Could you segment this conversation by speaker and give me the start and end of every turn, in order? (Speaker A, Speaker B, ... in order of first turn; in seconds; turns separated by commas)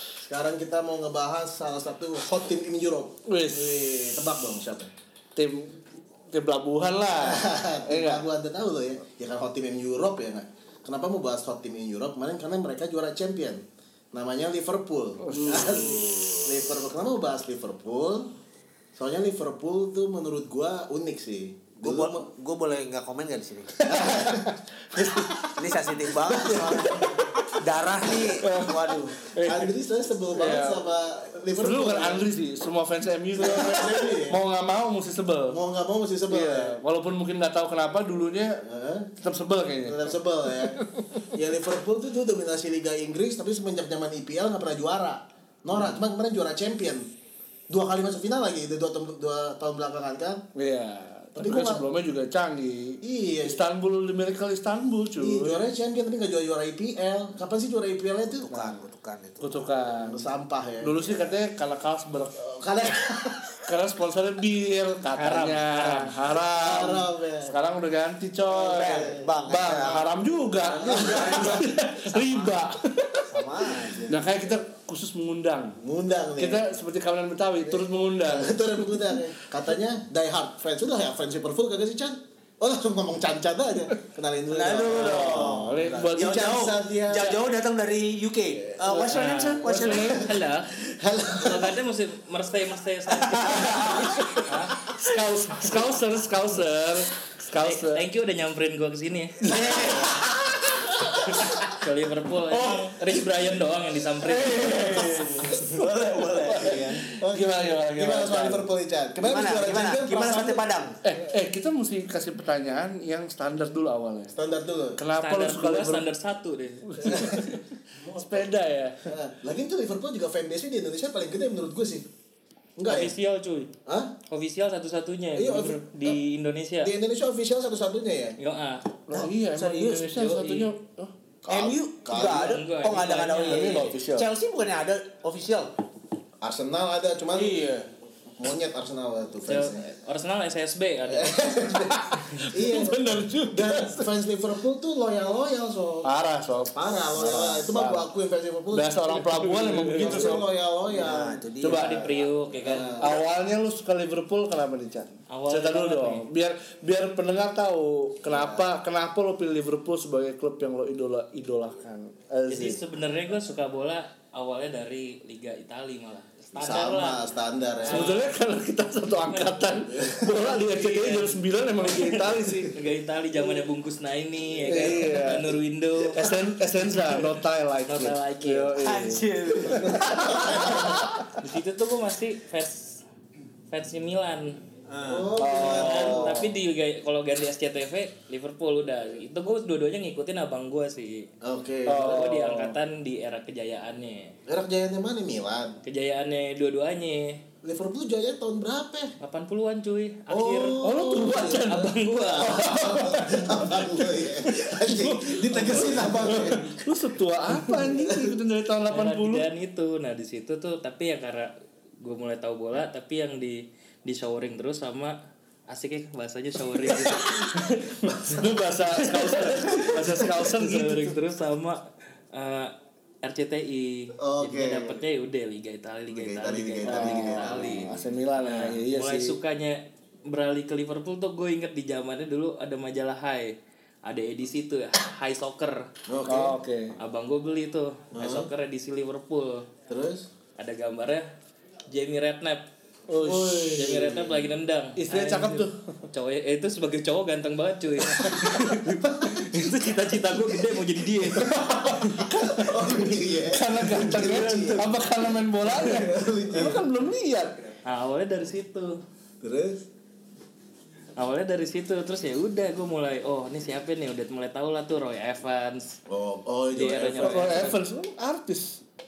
Speaker A: 0.2-4.9, Speaker B: 3.3-3.8, Speaker B: 5.3-8.3, Speaker A: 7.2-18.3, Speaker B: 15.2-16.0, Speaker C: 15.4-16.7, Speaker A: 18.9-22.2, Speaker C: 21.8-24.1, Speaker A: 23.8-24.5, Speaker B: 23.9-25.6, Speaker C: 25.5-29.2, Speaker A: 26.3-27.3, Speaker B: 26.7-27.1, Speaker B: 28.4-29.7, Speaker A: 29.4-32.2, Speaker B: 30.3-30.8, Speaker B: 31.6-35.6, Speaker A: 33.4-34.4, Speaker A: 35.5-36.8, Speaker B: 36.3-38.6, Speaker A: 38.6-39.1, Speaker B: 39.2-41.2, Speaker A: 39.8-47.1, Speaker B: 45.7-46.0, Speaker A: 47.7-50.5, Speaker B: 50.5-55.6, Speaker A: 51.4-51.8, Speaker A: 53.0-53.6, Speaker A: 55.2-58.5, Speaker C: 58.3-59.7, Speaker B: 58.5-58.8, Speaker B: 59.4-60.3, Speaker A: 60.0-61.3, Speaker B: 60.8-62.4, Speaker A: 62.4-63.6, Speaker B: 63.7-73.5, Speaker D: 65.2-66.1, Speaker A: 66.4-67.5, Speaker C: 68.5-72.6, Speaker A: 68.6-69.7, Speaker A: 70.8-71.7, Speaker C: 73.2-74.2, Speaker B: 74.0-75.8, Speaker A: 75.8-76.7, Speaker B: 76.4-79.3, Speaker A: 77.6-87.3, Speaker C: 84.5-90.3, Speaker B: 84.9-86.5, Speaker B: 88.8-90.3, Speaker D: 89.1-90.7, Speaker A: 90.8-91.8, Speaker D: 91.4-94.9, Speaker C: 93.3-94.1, Speaker B: 93.4-98.1, Speaker A: 93.8-94.2, Speaker D: 97.6-99.6, Speaker C: 99.5-100.3, Speaker B: 99.5-100.2, Speaker D: 101.3-105.7, Speaker B: 102.5-103.1, Speaker B: 104.2-105.6, Speaker C: 104.7-107.0, Speaker B: 106.4-108.7, Speaker A: 106.6-110.6, Speaker C: 109.2-111.0, Speaker B: 111.0-114.3, Speaker A: 114.3-115.0, Speaker B: 115.0-116.1, Speaker D: 115.2-117.4, Speaker B: 116.9-117.6, Speaker A: 117.0-118.5, Speaker B: 118.2-119.0, Speaker A: 119.0-122.1, Speaker A: 122.8-123.1, Speaker D: 122.8-123.7, Speaker A: 123.9-124.2, Speaker D: 124.3-126.9, Speaker A: 125.3-126.2, Speaker A: 126.8-128.4, Speaker D: 128.4-128.9, Speaker B: 129.1-131.1, Speaker C: 129.1-130.2, Speaker D: 130.1-130.7, Speaker A: 131.4-132.6, Speaker C: 131.5-135.7, Speaker D: 132.2-133.9, Speaker B: 133.4-134.3, Speaker A: 136.4-137.6, Speaker C: 137.3-137.9, Speaker A: 138.4-139.8, Speaker D: 139.5-141.3, Speaker A: 141.1-146.1, Speaker B: 141.8-144.2, Speaker B: 146.0-148.1, Speaker A: 146.7-148.9, Speaker B: 148.7-150.5, Speaker D: 149.1-150.1, Speaker A: 149.9-151.4, Speaker C: 150.0-152.1, Speaker B: 151.6-152.1, Speaker D: 151.7-153.1, Speaker A: 152.6-153.2, Speaker B: 153.0-162.8, Speaker D: 155.3-156.3, Speaker C: 158.3-158.6, Speaker D: 162.5-167.3, Speaker A: 166.6-168.2, Speaker D: 167.9-168.3, Speaker B: 167.9-172.8, Speaker D: 169.3-169.7, Speaker D: 170.2-176.2, Speaker B: 174.6-175.5, Speaker B: 176.1-181.3, Speaker D: 177.9-178.8, Speaker C: 178.8-180.9, Speaker A: 179.6-181.1, Speaker D: 181.4-183.0, Speaker D: 183.7-184.6, Speaker C: 184.9-185.4, Speaker A: 185.1-186.4, Speaker B: 185.4-186.6, Speaker D: 185.5-191.3, Speaker A: 191.4-192.3, Speaker B: 191.9-192.8, Speaker D: 191.9-194.4, Speaker A: 194.5-195.8, Speaker D: 195.8-197.4, Speaker A: 197.6-199.1, Speaker D: 199.2-202.7, Speaker A: 200.3-206.8, Speaker B: 200.8-209.5, Speaker D: 205.6-206.7, Speaker D: 207.5-207.9, Speaker A: 208.0-208.3, Speaker D: 208.9-215.2, Speaker D: 215.7-233.6, Speaker B: 216.8-221.2, Speaker A: 224.2-225.0, Speaker A: 226.1-227.9, Speaker B: 226.8-229.4, Speaker D: 234.1-235.9, Speaker A: 236.1-236.6, Speaker B: 236.2-237.0, Speaker D: 237.0-239.7, Speaker A: 238.2-238.5, Speaker A: 239.9-240.3, Speaker D: 240.6-241.3, Speaker D: 241.9-242.7, Speaker B: 243.1-244.1, Speaker A: 243.2-244.4, Speaker D: 243.7-252.4, Speaker B: 245.0-246.1, Speaker A: 248.3-250.6, Speaker A: 251.3-255.1, Speaker B: 253.5-257.7, Speaker A: 255.6-256.9, Speaker D: 257.9-259.0, Speaker A: 259.4-259.8, Speaker D: 261.2-266.0, Speaker A: 266.1-267.7, Speaker D: 266.7-267.8, Speaker B: 267.2-268.8